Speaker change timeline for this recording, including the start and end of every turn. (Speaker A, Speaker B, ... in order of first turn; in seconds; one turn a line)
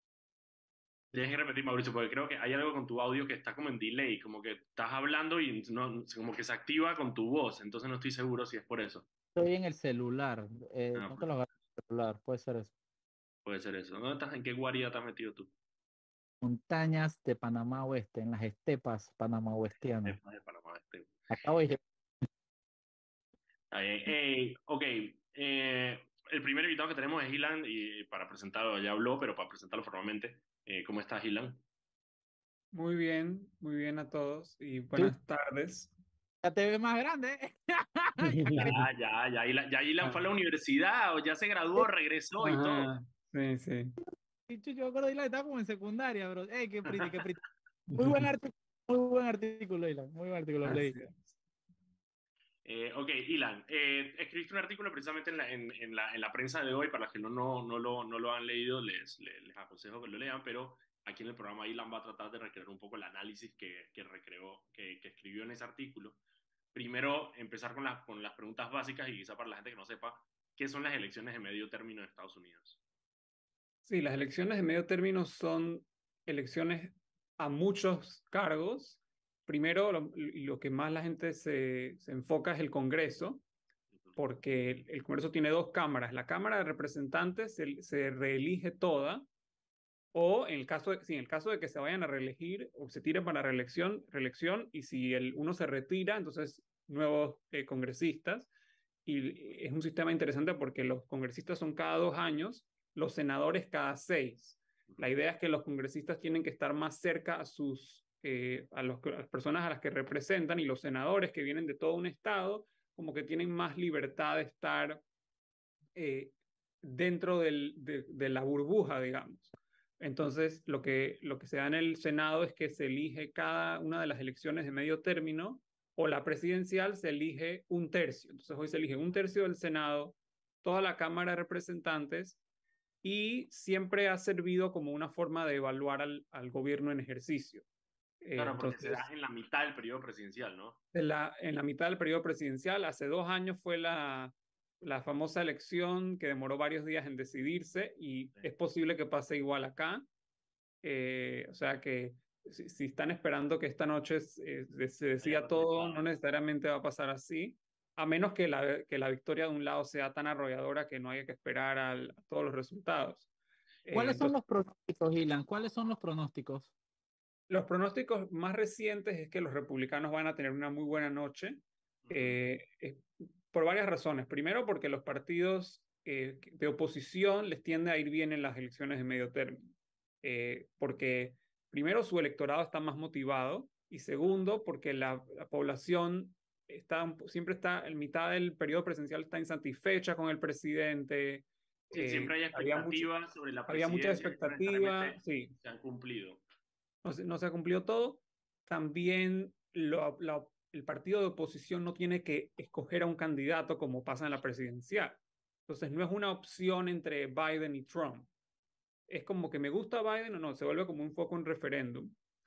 Speaker A: 1.1-9.1
Speaker B: 9.3-12.7
Speaker A: 10.9-11.3
Speaker A: 13.4-15.5
Speaker B: 16.4-20.2
Speaker A: 20.0-21.1
Speaker B: 21.3-21.8
Speaker A: 23.7-31.6
Speaker C: 32.7-35.9
Speaker B: 36.4-38.8
Speaker C: 38.2-38.7
Speaker A: 38.6-42.9
Speaker C: 42.4-44.0
Speaker B: 44.5-51.0
Speaker C: 47.9-48.2
Speaker C: 50.6-51.3
Speaker A: 52.6-66.2
Speaker A: 66.7-72.8
Speaker C: 73.8-83.4
Speaker C: 84.2-89.2
Speaker C: 90.1-98.5
Speaker C: 99.0-115.0
Speaker C: 115.9-132.4
Speaker C: 133.0-137.6
Speaker C: 138.2-139.1
Speaker A: 138.3-140.8
Speaker C: 140.9-150.1
Speaker C: 150.8-163.3
Speaker A: 155.2-156.1
Speaker C: 163.8-164.3
Speaker B: 163.9-166.7
Speaker C: 167.5-179.7
Speaker A: 172.0-172.4
Speaker C: 180.2-193.1
Speaker A: 191.9-196.4
Speaker C: 193.7-195.5
Speaker C: 197.0-208.3
Speaker C: 209.1-212.1